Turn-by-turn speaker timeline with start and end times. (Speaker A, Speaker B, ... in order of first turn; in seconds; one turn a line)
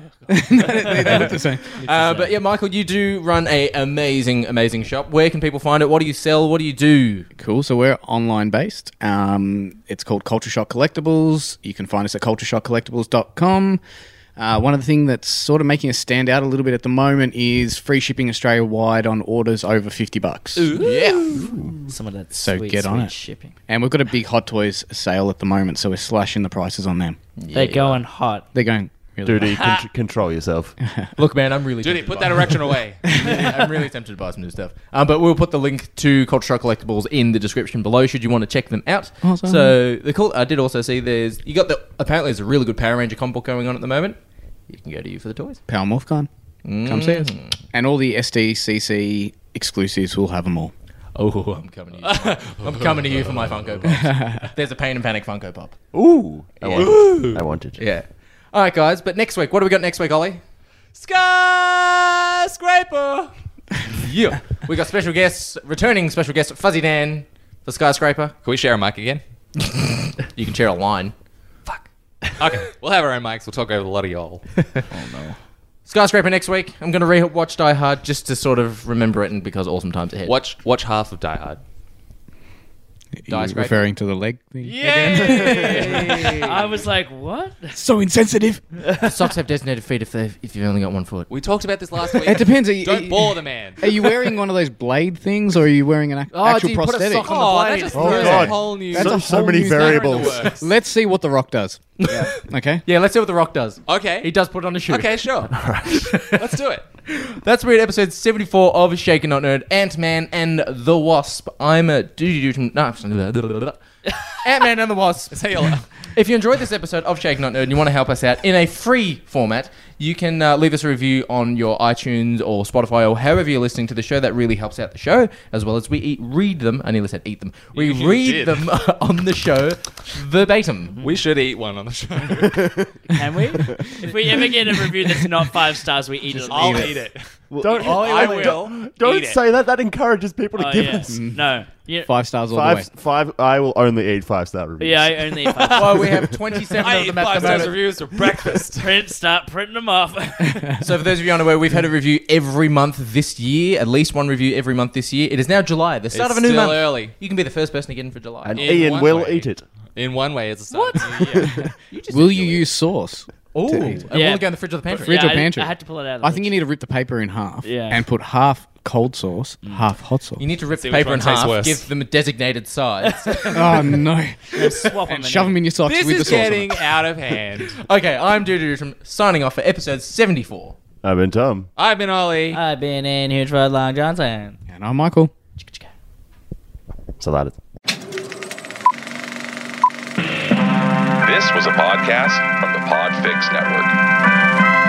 Speaker A: 0.3-1.8
Speaker B: 0.9-7.3
Speaker C: 1.9-2.3
Speaker A: 7.4-13.8
Speaker A: 14.3-20.7
Speaker C: 20.7-21.3
Speaker B: 20.7-21.4
Speaker D: 21.4-21.7
Speaker C: 21.9-23.5
Speaker A: 22.3-27.2
Speaker B: 27.4-28.0
Speaker C: 27.5-28.5
Speaker A: 28.5-29.6
Speaker D: 29.2-30.8
Speaker B: 31.2-44.2
Speaker E: 31.8-33.3
Speaker A: 33.2-33.8
Speaker A: 39.2-39.8
Speaker B: 44.7-45.6
Speaker A: 45.7-46.3
Speaker B: 46.6-47.6
Speaker A: 46.8-50.7
Speaker B: 51.1-55.8
Speaker E: 52.0-53.3
Speaker A: 54.0-54.5
Speaker D: 55.9-57.8
Speaker B: 56.6-60.4
Speaker E: 56.7-57.4
Speaker E: 60.9-63.3
Speaker B: 64.0-68.3
Speaker E: 68.4-69.2
Speaker B: 69.6-71.1
Speaker E: 71.7-74.5
Speaker B: 74.6-74.8
Speaker C: 74.9-75.4
Speaker B: 75.8-80.4
Speaker E: 80.2-81.6
Speaker A: 83.2-86.6
Speaker B: 83.3-83.9
Speaker E: 84.6-86.8
Speaker C: 84.9-87.8
Speaker A: 87.7-89.0
Speaker B: 89.0-91.3
Speaker E: 91.3-94.1
Speaker A: 92.2-97.3
Speaker B: 96.3-98.5
Speaker E: 97.2-100.6
Speaker D: 97.9-100.5
Speaker A: 98.0-102.8
Speaker B: 100.2-100.6
Speaker B: 102.0-105.3
Speaker E: 103.9-104.3
Speaker E: 104.9-105.7
Speaker D: 105.5-106.2
Speaker B: 106.0-106.5
Speaker E: 106.4-106.8
Speaker B: 107.2-131.0
Speaker E: 115.3-115.9
Speaker E: 127.7-128.7
Speaker E: 131.0-132.7
Speaker D: 132.2-132.9
Speaker C: 133.1-136.9
Speaker A: 136.3-136.9
Speaker E: 136.5-139.4
Speaker D: 137.5-141.4
Speaker B: 137.6-138.7
Speaker C: 140.5-142.1
Speaker A: 141.1-141.4
Speaker A: 142.0-142.9
Speaker D: 142.5-146.3
Speaker C: 144.8-146.0
Speaker B: 145.7-147.8
Speaker E: 146.7-149.0
Speaker C: 147.3-147.7
Speaker C: 148.7-150.7
Speaker B: 150.8-158.9
Speaker E: 156.1-157.2
Speaker D: 158.4-159.6
Speaker E: 158.6-161.5
Speaker D: 161.2-161.5
Speaker A: 161.4-164.1
Speaker B: 161.9-162.7
Speaker B: 163.5-165.4
Speaker C: 164.1-166.6
Speaker A: 164.9-170.4
Speaker C: 167.6-168.0
Speaker B: 170.4-173.8
Speaker E: 170.7-171.8
Speaker C: 173.1-173.6
Speaker A: 173.5-177.0
Speaker C: 174.5-175.6
Speaker E: 175.8-177.7
Speaker B: 177.6-180.8
Speaker D: 181.0-181.7
Speaker E: 181.8-182.6
Speaker C: 182.5-184.6
Speaker A: 184.7-185.3
Speaker C: 185.6-185.9
Speaker D: 187.2-187.5
Speaker F: 191.2-193.9